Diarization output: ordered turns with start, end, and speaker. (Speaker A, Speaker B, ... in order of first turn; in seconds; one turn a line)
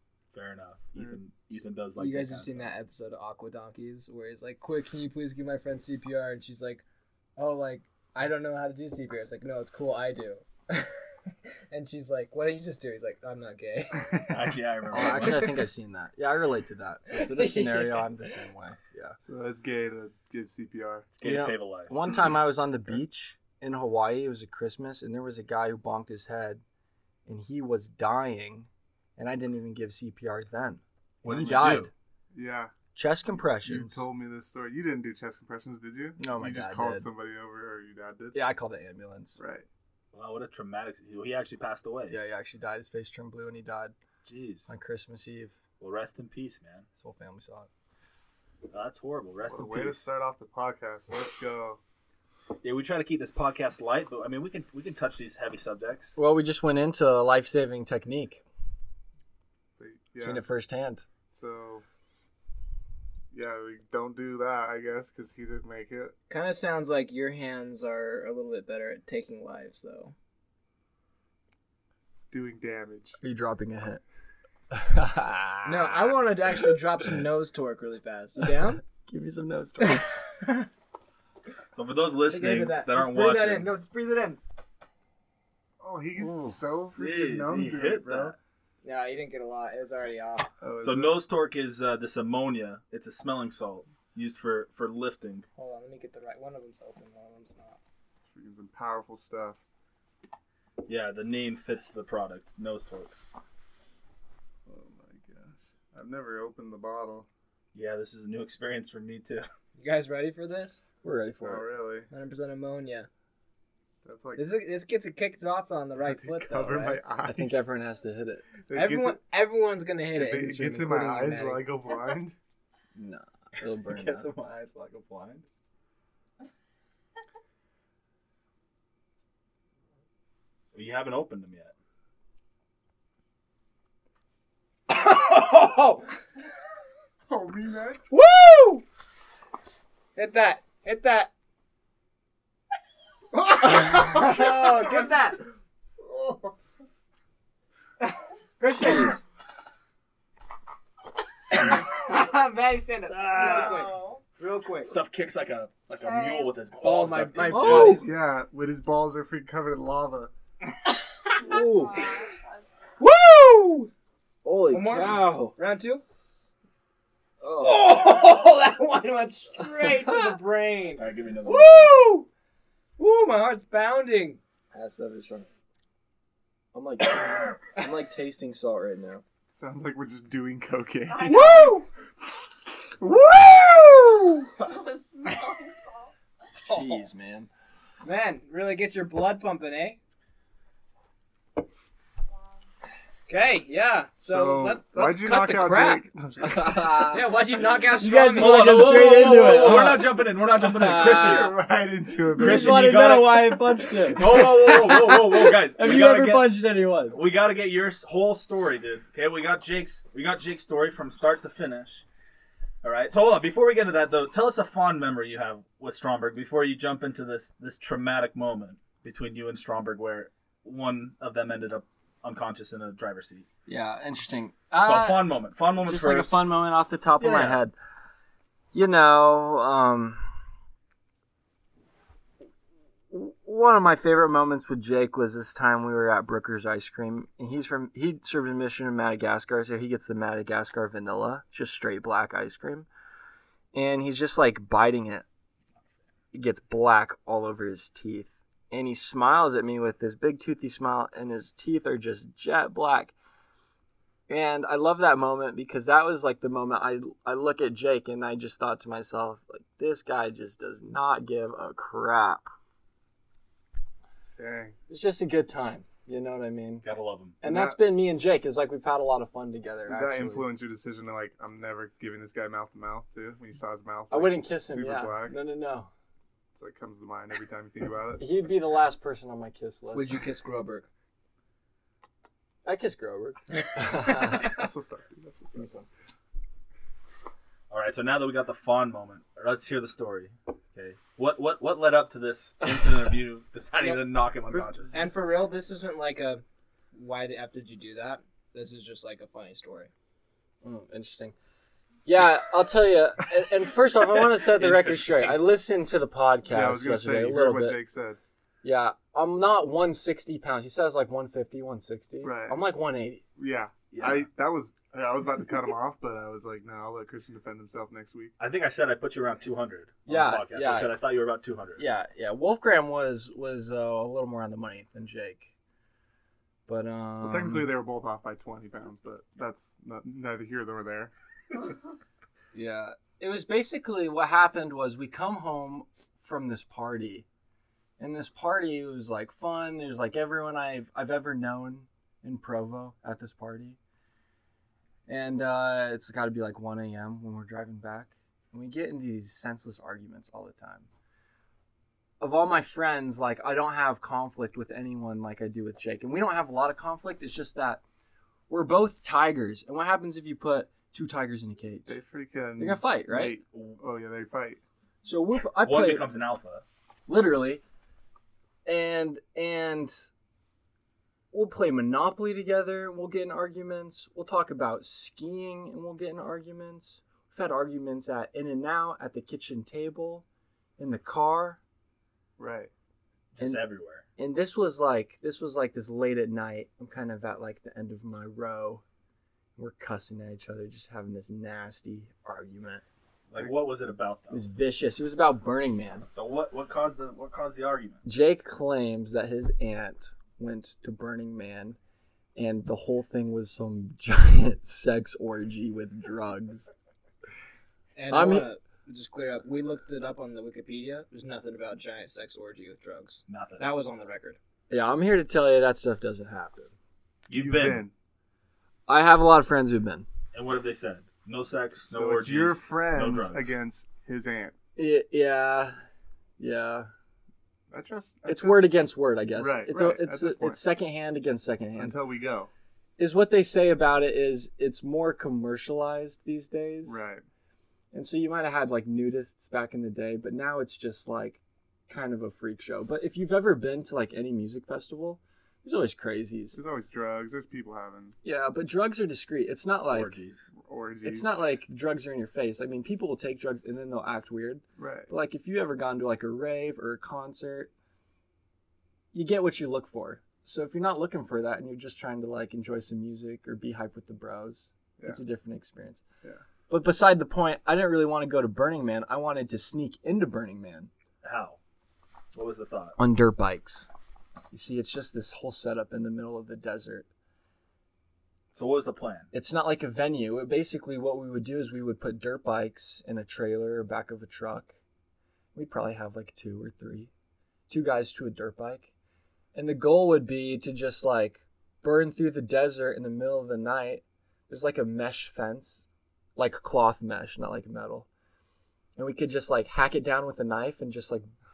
Speaker A: 0.3-2.7
Speaker B: 1.9-6.8
Speaker B: 7.4-10.9
Speaker B: 11.7-14.4
Speaker A: 14.3-15.6
Speaker C: 14.9-19.2
Speaker B: 14.9-15.6
Speaker B: 17.1-18.1
Speaker D: 19.2-21.1
Speaker A: 21.1-21.9
Speaker C: 21.2-26.6
Speaker C: 27.2-31.9
Speaker A: 31.2-31.9
Speaker D: 32.3-32.7
Speaker C: 32.9-34.1
Speaker D: 33.6-38.4
Speaker C: 36.2-37.1
Speaker C: 38.3-39.4
Speaker D: 39.4-39.7
Speaker A: 40.1-42.2
Speaker C: 42.1-43.9
Speaker A: 44.2-44.7
Speaker C: 44.7-45.6
Speaker A: 45.8-46.9
Speaker C: 47.0-47.7
Speaker A: 48.7-50.0
Speaker D: 49.5-51.8
Speaker A: 52.6-56.2
Speaker C: 56.1-58.4
Speaker D: 59.8-60.4
Speaker C: 60.2-61.1
Speaker D: 61.3-61.8
Speaker D: 63.3-66.1
Speaker B: 66.3-70.1
Speaker D: 72.3-73.2
Speaker C: 73.2-74.0
Speaker C: 74.7-76.1
Speaker B: 75.6-78.8
Speaker C: 78.9-80.1
Speaker A: 81.8-83.7
Speaker B: 82.3-84.4
Speaker D: 85.8-88.4
Speaker C: 86.2-86.5
Speaker A: 87.0-88.4
Speaker B: 88.8-90.5
Speaker D: 90.6-91.2
Speaker A: 90.8-95.5
Speaker B: 95.6-97.8
Speaker D: 98.3-99.6
Speaker A: 100.8-103.2
Speaker D: 104.7-107.3
Speaker A: 107.7-109.5
Speaker B: 109.8-110.8
Speaker C: 111.0-111.7
Speaker D: 111.4-112.1
Speaker B: 112.1-113.1
Speaker D: 114.0-114.5
Speaker B: 114.4-117.0
Speaker D: 116.0-117.7
Speaker C: 117.2-118.5
Speaker D: 118.7-119.2
Speaker B: 118.7-121.7
Speaker D: 120.1-122.4
Speaker C: 123.0-124.3
Speaker A: 123.9-125.4
Speaker A: 130.7-131.7
Speaker B: 134.9-136.1
Speaker D: 137.3-138.1
Speaker B: 138.1-138.8
Speaker B: 140.2-141.3
Speaker D: 143.3-145.1
Speaker B: 143.6-145.4
Speaker D: 146.0-146.6
Speaker B: 148.0-149.2
Speaker B: 151.5-154.9
Speaker A: 153.1-153.9
Speaker A: 154.8-158.0
Speaker B: 156.8-158.1
Speaker C: 157.5-158.0
Speaker D: 157.9-160.3
Speaker B: 161.2-162.3
Speaker B: 163.0-163.9
Speaker A: 164.4-165.4
Speaker B: 164.7-166.0
Speaker C: 164.9-165.5
Speaker C: 167.4-167.9
Speaker B: 167.6-172.3
Speaker A: 171.0-172.0
Speaker B: 173.0-174.4
Speaker C: 174.7-175.5
Speaker C: 176.7-179.2
Speaker D: 179.6-181.8
Speaker B: 181.2-181.9
Speaker D: 182.6-184.5
Speaker B: 186.7-187.1
Speaker C: 186.7-187.5
Speaker B: 188.0-190.0
Speaker B: 193.3-196.1
Speaker D: 194.2-197.1
Speaker C: 196.4-197.3
Speaker B: 197.1-199.0
Speaker C: 197.9-201.5
Speaker A: 198.2-201.6
Speaker D: 201.0-203.0
Speaker C: 202.4-207.2
Speaker A: 202.4-206.6
Speaker A: 207.1-212.0
Speaker A: 212.8-223.5
Speaker C: 223.7-225.3
Speaker A: 224.8-226.6
Speaker C: 225.8-227.8
Speaker A: 227.2-227.6
Speaker C: 228.7-230.3
Speaker C: 233.1-242.9
Speaker C: 243.7-245.2
Speaker C: 246.3-253.1
Speaker C: 254.3-262.5
Speaker D: 264.4-264.8
Speaker C: 264.9-266.9
Speaker A: 266.8-267.4
Speaker C: 267.4-270.5
Speaker D: 267.4-267.8
Speaker D: 269.9-275.4
Speaker C: 274.1-275.9
Speaker D: 276.5-278.2
Speaker C: 278.2-280.2
Speaker B: 279.9-280.9
Speaker C: 282.6-284.5
Speaker D: 284.4-285.7
Speaker C: 285.5-285.9
Speaker A: 287.7-294.9
Speaker B: 294.9-299.9
Speaker C: 300.6-301.4
Speaker C: 302.1-307.8
Speaker A: 304.6-305.4
Speaker D: 306.5-308.2
Speaker C: 308.6-313.2
Speaker D: 312.2-312.6
Speaker D: 313.4-318.3
Speaker A: 313.9-314.2
Speaker A: 318.4-321.8
Speaker C: 320.1-321.0
Speaker C: 321.8-325.5
Speaker C: 326.7-327.7
Speaker D: 327.2-331.1
Speaker C: 332.5-337.2
Speaker C: 338.0-343.8
Speaker C: 345.1-350.9
Speaker C: 352.2-357.8
Speaker C: 358.5-362.0
Speaker D: 361.9-364.6
Speaker C: 362.6-363.4
Speaker A: 363.5-363.8
Speaker C: 365.0-366.1
Speaker A: 365.6-366.6
Speaker C: 367.1-367.6
Speaker C: 368.6-370.1
Speaker C: 371.3-380.2
Speaker C: 380.8-381.6
Speaker D: 382.4-382.7
Speaker A: 383.4-384.0
Speaker C: 384.2-388.8
Speaker C: 389.6-392.8
Speaker A: 393.3-394.5
Speaker C: 394.3-396.1
Speaker A: 396.1-398.0
Speaker C: 398.0-401.8
Speaker C: 402.4-406.7
Speaker B: 408.0-414.4
Speaker C: 408.1-408.5
Speaker A: 413.3-413.7
Speaker C: 414.7-416.7
Speaker A: 417.3-417.9
Speaker D: 417.3-417.9
Speaker C: 418.9-420.1
Speaker A: 420.3-423.6
Speaker D: 421.9-424.6
Speaker C: 424.8-425.8
Speaker C: 426.4-426.9
Speaker D: 427.7-428.7
Speaker C: 428.2-432.0
Speaker D: 429.4-430.6
Speaker D: 431.8-432.5
Speaker C: 433.0-437.0
Speaker D: 436.9-437.2
Speaker C: 437.9-446.6
Speaker D: 446.5-448.1
Speaker C: 448.2-450.1
Speaker A: 449.9-450.4
Speaker D: 450.6-451.6
Speaker C: 451.0-457.7
Speaker D: 454.8-455.1
Speaker C: 459.1-466.0
Speaker C: 466.7-470.9
Speaker A: 471.2-471.6
Speaker A: 472.3-473.0
Speaker C: 473.0-473.9
Speaker C: 474.5-477.1
Speaker A: 478.5-479.3
Speaker C: 479.3-484.8
Speaker C: 485.5-487.1
Speaker C: 487.7-488.9
Speaker C: 489.5-495.8
Speaker C: 496.4-498.1
Speaker C: 499.0-501.3